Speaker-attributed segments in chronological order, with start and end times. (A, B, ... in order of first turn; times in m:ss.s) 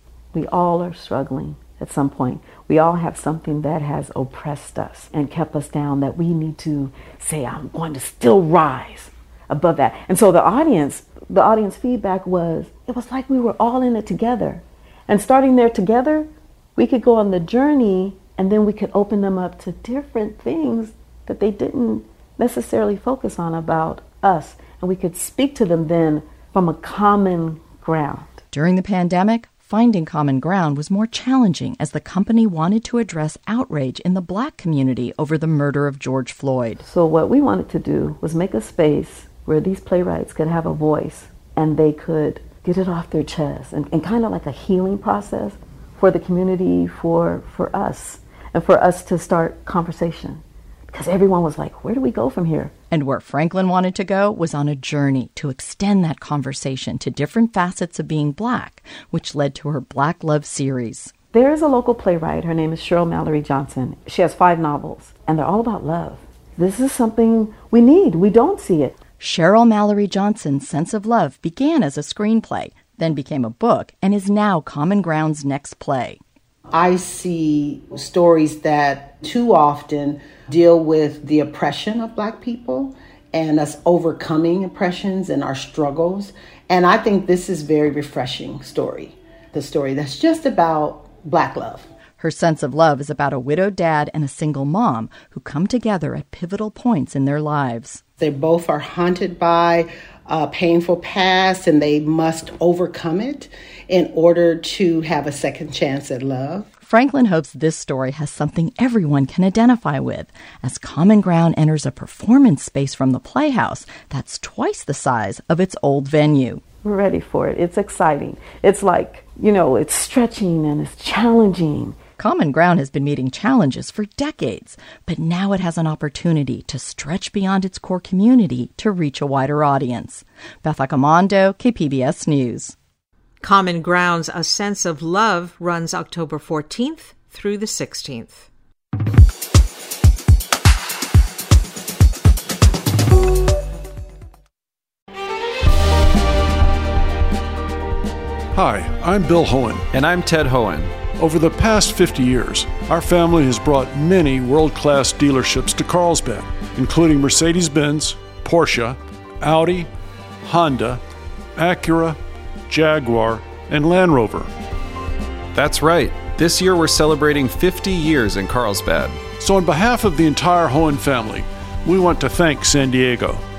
0:00.3-0:28.4 A
0:28.5-0:36.8 B
0:36.8-0:52.7 A
0:52.9-1:01.1 B
1:01.3-1:09.0 A
1:09.2-1:16.2 B
1:16.7-1:31.9 C
1:32.2-1:38.0 B
1:38.2-1:46.7 C
1:46.8-1:56.6 B
1:56.8-2:02.0 A
2:02.2-2:12.8 B
2:13.4-2:18.5 D
2:28.5-2:29.9 E
2:29.9-2:31.0 F
2:31.1-2:39.9 E
2:40.4-2:41.0 E
2:41.6-2:44.5 E
2:45.5-2:49.2 F
2:49.4-2:53.4 E